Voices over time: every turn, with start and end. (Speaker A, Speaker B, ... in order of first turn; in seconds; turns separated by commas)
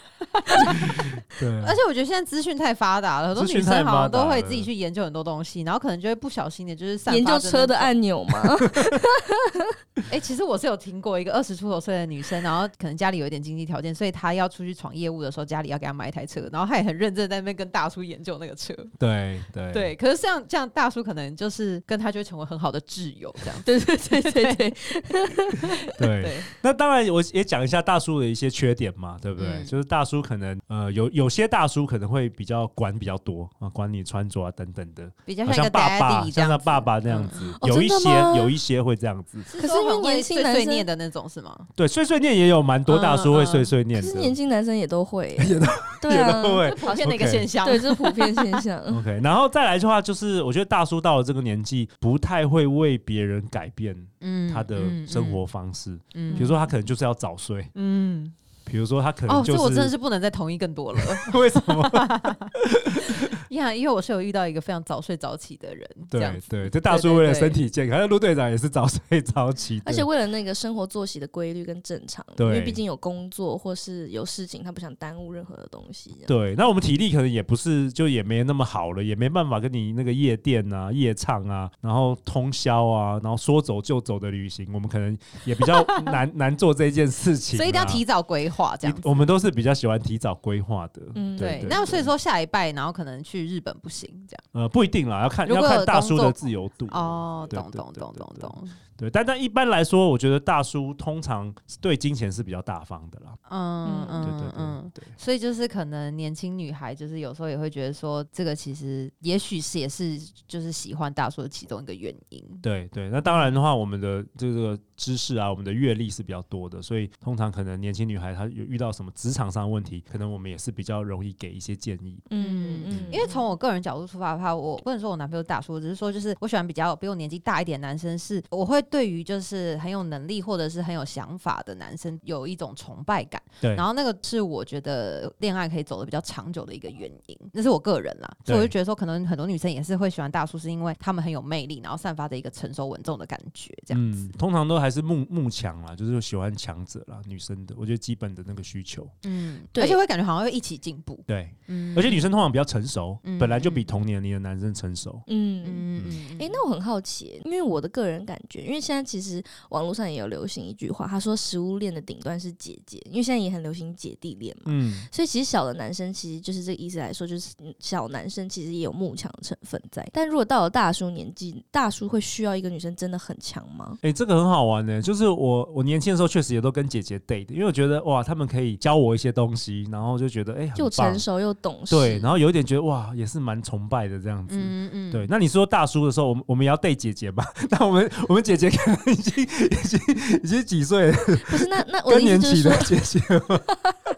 Speaker A: 0.3-1.0, Speaker B: 0.6-1.8, Speaker A: 1.6-7.9, Speaker B: 3.4-4.7, Speaker C: 7.1-9.8, Speaker B: 8.7-9.0, Speaker A: 10.1-18.9, Speaker B: 19.0-19.9, Speaker A: 19.7-24.7, Speaker C: 23.6-26.0, Speaker B: 26.0-39.5, Speaker A: 26.0-26.5, Speaker A: 29.4-29.7, Speaker A: 35.3-37.5, Speaker C: 37.5-38.5, Speaker A: 39.5-41.7, Speaker C: 39.6-40.9, Speaker B: 41.8-44.4, Speaker A: 42.9-43.7, Speaker C: 44.0-47.1, Speaker B: 45.4-47.5, Speaker A: 46.6-48.6, Speaker C: 47.6-49.0, Speaker B: 48.9-57.7, Speaker A: 54.2-55.4, Speaker A: 56.1-56.7, Speaker A: 57.8-58.3, Speaker B: 58.7-59.9, Speaker A: 59.3-62.5, Speaker B: 61.0-63.4, Speaker A: 63.3-67.6, Speaker B: 66.1-70.1, Speaker C: 69.8-76.3, Speaker B: 72.4-72.8, Speaker B: 76.3-88.0, Speaker A: 87.5-89.3, Speaker B: 88.8-91.8, Speaker C: 91.2-92.1, Speaker A: 91.4-94.4, Speaker B: 94.5-103.4, Speaker A: 95.5-96.4, Speaker A: 96.9-98.8, Speaker A: 103.5-112.6, Speaker C: 103.8-104.3, Speaker B: 104.2-105.1, Speaker B: 112.6-122.2, Speaker A: 113.3-113.6, Speaker C: 122.3-123.4, Speaker A: 122.4-144.3, Speaker B: 122.9-123.2, Speaker B: 138.5-138.7, Speaker B: 143.9-149.1, Speaker A: 149.2-152.3, Speaker C: 149.8-150.0, Speaker B: 151.3-155.2, Speaker A: 153.2-153.9, Speaker C: 155.3-174.0, Speaker A: 155.6-156.6, Speaker B: 164.7-165.1, Speaker B: 174.0-181.2, Speaker C: 180.8-182.3, Speaker B: 181.9-193.7, Speaker A: 184.5-185.3, Speaker C: 191.4-193.0, Speaker C: 193.6-194.0